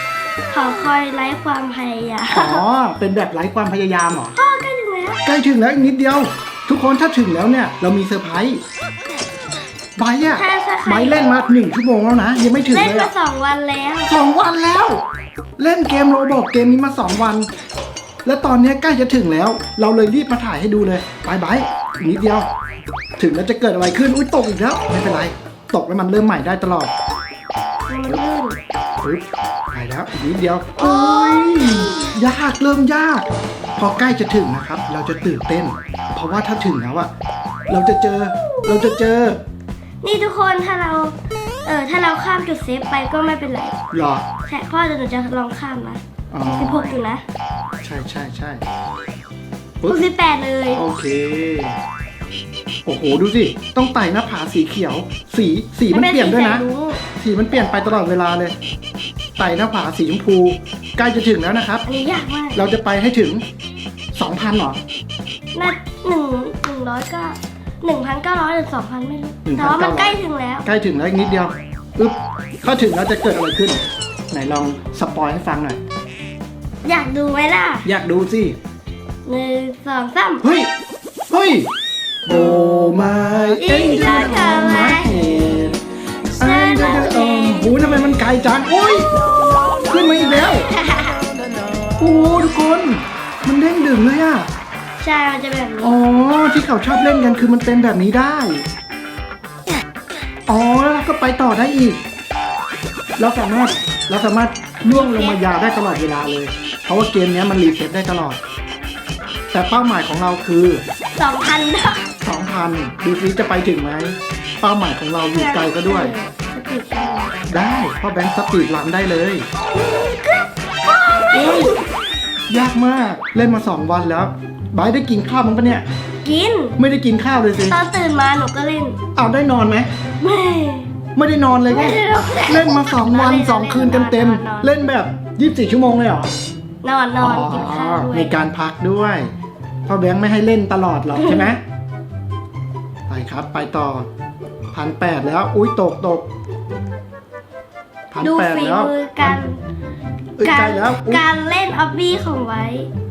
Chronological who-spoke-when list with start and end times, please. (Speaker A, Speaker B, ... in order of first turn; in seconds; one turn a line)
Speaker A: 0.5-2.6
Speaker B: 2.3-4.3
Speaker A: 4.3-5.2
Speaker B: 5.2-8.6
Speaker B: 10.0-13.1
Speaker A: 10.3-11.2
Speaker A: 12.7-14.1
Speaker B: 14.1-15.0
Speaker B: 15.6-17.5
Speaker B: 18.2-22.5
Speaker B: 23.2-26.9
Speaker A: 27.9-28.6
Speaker B: 29.0-37.1
Speaker A: 30.8-32.2
Speaker B: 37.7-39.4
Speaker A: 38.3-38.9
Speaker A: 40.0-43.8
Speaker B: 43.9-44.2
Speaker A: 44.5-47.2
Speaker B: 46.3-46.9
Speaker B: 47.8-48.6
Speaker A: 49.8-50.8
Speaker B: 50.7-51.8
Speaker B: 52.9-56.6
Speaker A: 55.9-57.0
Speaker B: 57.1-58.5
Speaker B: 59.4-61.8
Speaker A: 61.9-62.6
Speaker B: 62.5-63.4
Speaker B: 64.1-64.8
Speaker A: 65.5-70.7
Speaker B: 69.4-75.8
Speaker A: 76.8-77.9
Speaker B: 77.8-78.5
Speaker A: 79.2-80.4
Speaker B: 80.4-80.7
Speaker B: 81.3-81.7
Speaker B: 82.2-85.8
Speaker A: 83.5-85.1
Speaker B: 86.4-89.1
Speaker A: 86.4-88.2
Speaker B: 89.8-90.7
Speaker A: 90.5-91.2
Speaker B: 92.0-94.5
Speaker A: 95.0-95.9
Speaker B: 95.8-98.7
Speaker B: 100.5-102.0
Speaker B: 103.2-108.4
Speaker A: 104.8-105.4
Speaker B: 109.5-110.8
Speaker A: 111.2-112.1
Speaker B: 112.2-116.2
Speaker A: 115.3-117.3
Speaker B: 117.5-119.5
Speaker A: 119.7-121.8
Speaker B: 122.5-125.8
Speaker A: 126.2-126.8
Speaker B: 126.8-127.8
Speaker A: 127.6-129.0
Speaker B: 129.1-129.9
Speaker A: 130.2-130.9
Speaker B: 131.1-136.3
Speaker A: 131.7-134.7
Speaker A: 136.8-138.3
Speaker B: 137.2-139.3
Speaker B: 139.8-141.6
Speaker A: 141.1-141.5
Speaker B: 143.1-144.1
Speaker B: 144.7-146.3
Speaker B: 148.1-149.4
Speaker A: 148.2-149.6
Speaker B: 150.4-151.2
Speaker A: 150.4-152.9